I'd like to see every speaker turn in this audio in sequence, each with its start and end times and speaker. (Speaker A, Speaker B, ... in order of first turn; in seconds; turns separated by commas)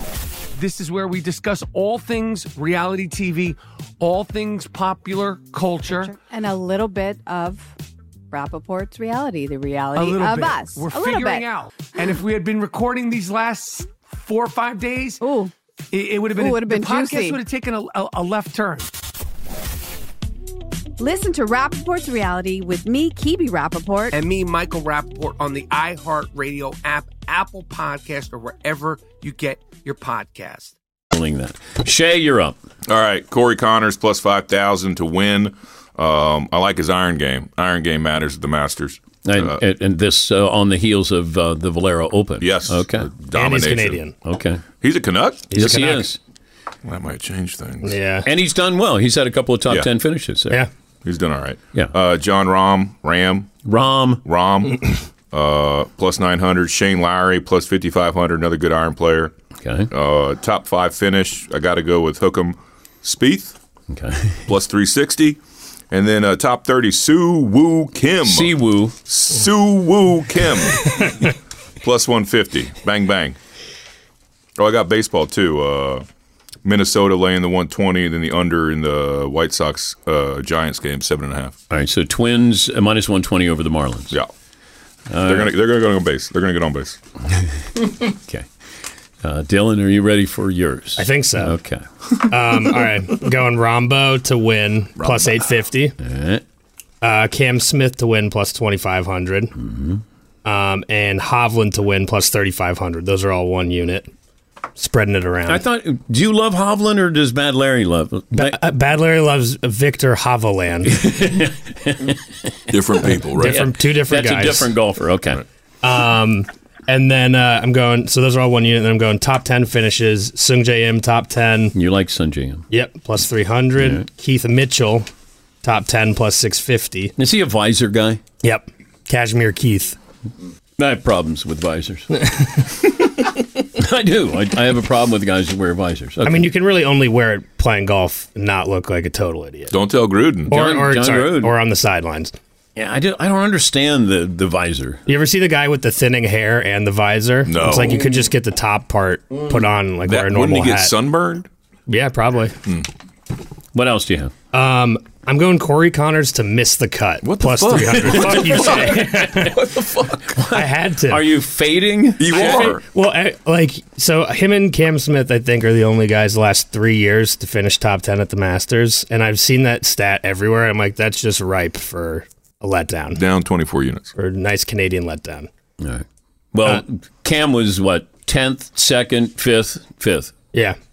Speaker A: 0.5-6.1, Speaker B: 5.9-7.7, Speaker B: 8.3-11.5, Speaker A: 9.9-15.2, Speaker B: 15.2-15.5, Speaker A: 15.9-18.9, Speaker B: 16.3-17.4, Speaker B: 21.0-24.1, Speaker A: 24.1-30.8, Speaker C: 31.1-32.6, Speaker D: 32.9-39.6, Speaker C: 39.2-43.1, Speaker D: 42.4-44.0, Speaker E: 43.3-44.1, Speaker C: 44.2-44.6, Speaker D: 44.8-45.5, Speaker C: 45.5-46.2, Speaker E: 45.5-46.1, Speaker D: 46.8-47.9, Speaker E: 47.8-48.3, Speaker C: 48.2-50.6, Speaker D: 51.0-53.5, Speaker C: 53.6-54.2, Speaker D: 54.2-59.3, Speaker C: 59.6-59.9, Speaker D: 59.9-63.5, Speaker C: 63.9-64.4, Speaker D: 64.5-65.4, Speaker D: 65.9-68.5, Speaker C: 68.2-68.9, Speaker D: 69.0-71.3, Speaker D: 71.8-73.4, Speaker D: 74.6-76.0, Speaker D: 76.6-81.6, Speaker C: 81.7-84.1, Speaker C: 85.1-85.5, Speaker D: 85.2-87.0, Speaker C: 87.9-88.5, Speaker C: 89.2-91.8, Speaker E: 91.0-91.5, Speaker E: 92.3-95.9, Speaker D: 95.0-95.3, Speaker C: 96.0-96.4, Speaker E: 97.0-99.5, Speaker C: 99.6-100.0, Speaker E: 100.4-104.1, Speaker E: 104.8-105.6, Speaker C: 105.5-108.6, Speaker E: 108.3-111.0, Speaker C: 110.9-115.4, Speaker D: 112.7-113.6, Speaker E: 113.4-114.7, Speaker E: 115.8-121.7, Speaker C: 121.7-122.7, Speaker E: 122.7-125.1, Speaker C: 123.8-124.0, Speaker E: 125.6-127.1, Speaker C: 127.2-128.2, Speaker E: 128.4-130.0, Speaker C: 130.8-132.2, Speaker C: 133.8-136.5, Speaker E: 136.2-139.8, Speaker D: 139.7-140.5, Speaker E: 140.5-142.3, Speaker C: 140.5-141.5, Speaker C: 142.8-145.0, Speaker E: 145.1-150.9, Speaker D: 147.4-148.0, Speaker D: 150.1-151.5, Speaker E: 151.9-152.6, Speaker C: 153.7-154.3, Speaker E: 154.5-159.6, Speaker D: 157.2-160.4, Speaker C: 158.3-158.8, Speaker C: 160.3-162.8, Speaker E: 160.5-161.2, Speaker D: 162.2-162.8, Speaker E: 162.3-173.2, Speaker D: 173.1-174.1, Speaker E: 174.2-175.5, Speaker C: 175.8-180.3